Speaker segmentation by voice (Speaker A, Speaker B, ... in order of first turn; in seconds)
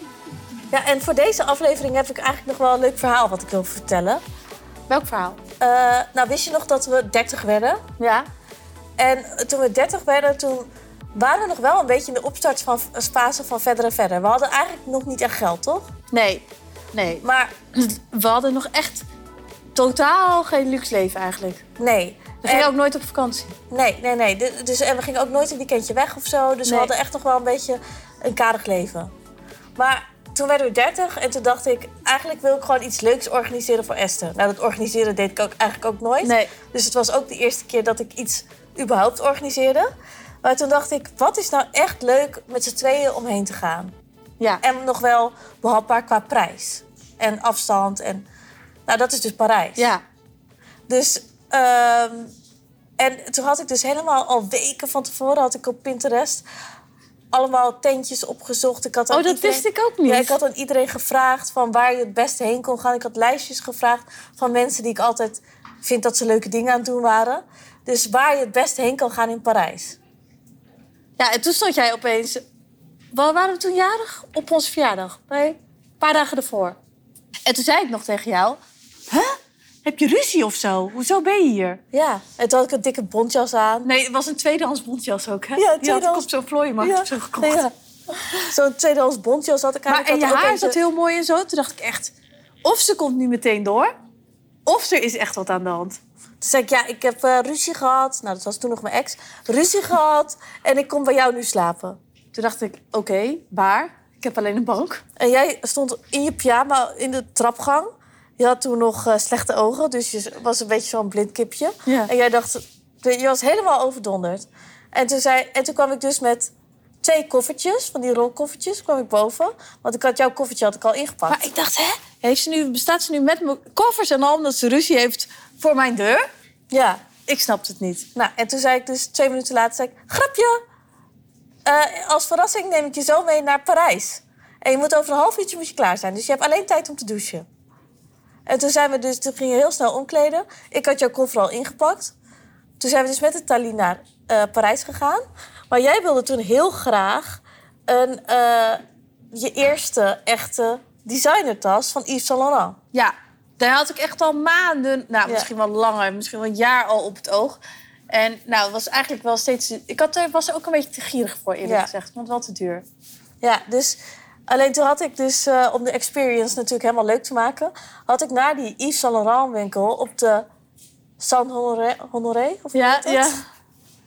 Speaker A: 0.7-4.2, 5.6-7.8, 9.0-15.9, 17.2-17.5, 21.8-22.7, 23.7-29.1, 29.8-39.9, 40.4-43.9, 44.6-48.3, 48.9-49.9, 50.9-52.3, 53.0-56.5, 57.3-70.0, 81.9-83.9, 85.5-86.3, 86.8-87.7, 88.2-90.8, 96.4-102.0, 105.2-116.5, 117.0-121.4, 126.7-127.0, 128.1-130.6, 131.6-137.4, 138.5-142.1, 142.8-148.8, 149.3-152.8, 161.6-161.9, 163.4-170.4, 171.2-173.4
Speaker B: 4.9-5.4, 8.0-8.3, 16.1-17.2, 17.7-19.1, 19.7-21.6, 22.4-23.5, 36.2-36.5, 49.8-50.0, 59.1-60.4, 71.2-72.4, 73.1-76.8, 77.5-81.8, 83.8-87.6, 89.9-92.1, 92.6-93.9, 94.7-96.0, 102.3-105.0, 121.3-126.3, 127.2-128.1, 152.9-157.6, 158.1-162.8, 172.7-173.4